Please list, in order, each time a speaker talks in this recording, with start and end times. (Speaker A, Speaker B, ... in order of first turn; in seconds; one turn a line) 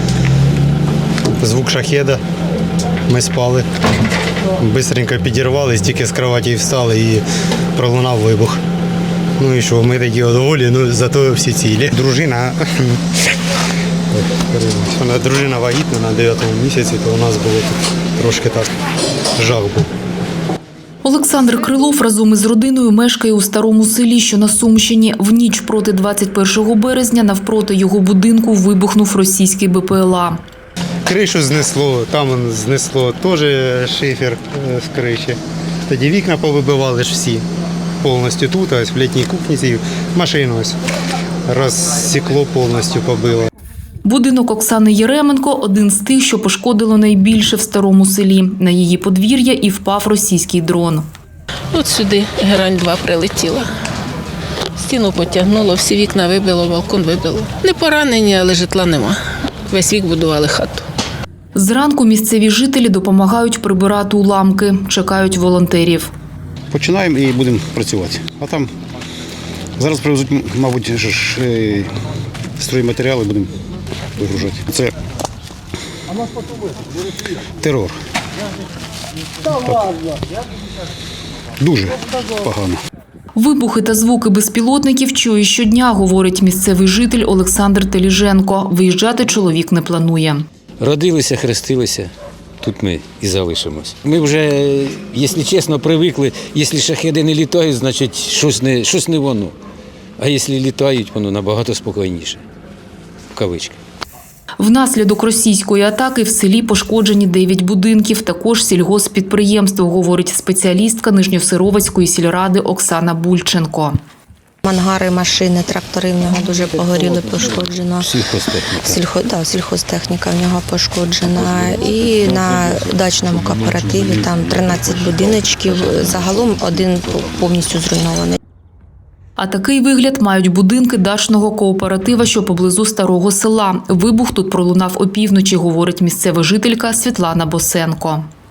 Speaker A: 1.4-2.2
Speaker A: 3.1-3.7
Speaker A: 4.6-7.2
Speaker A: 7.8-8.6
Speaker A: 9.4-13.0
Speaker A: 14.1-18.7
Speaker A: 19.4-19.9
Speaker B: 21.0-30.4
Speaker A: 31.1-37.5
Speaker A: 38.0-40.8
Speaker A: 41.5-43.5
Speaker B: 44.0-51.1
Speaker C: 51.7-53.7
Speaker C: 54.8-60.9
Speaker B: 61.5-66.1
Speaker D: 66.7-68.7
Speaker D: 69.8-71.9
Speaker D: 72.6-73.5
Speaker D: 74.2-74.9
Speaker D: 77.6-78.0
Speaker D: 81.6-82.8
Speaker B: 83.3-90.5
Speaker E: 90.8-99.5
Speaker E: 100.2-102.4
Speaker E: 103.3-103.8
Speaker B: 104.6-114.0
Speaker F: 114.7-118.2
Speaker E: 118.0-119.0
Speaker F: 118.7-128.4
Speaker B: 129.4-138.3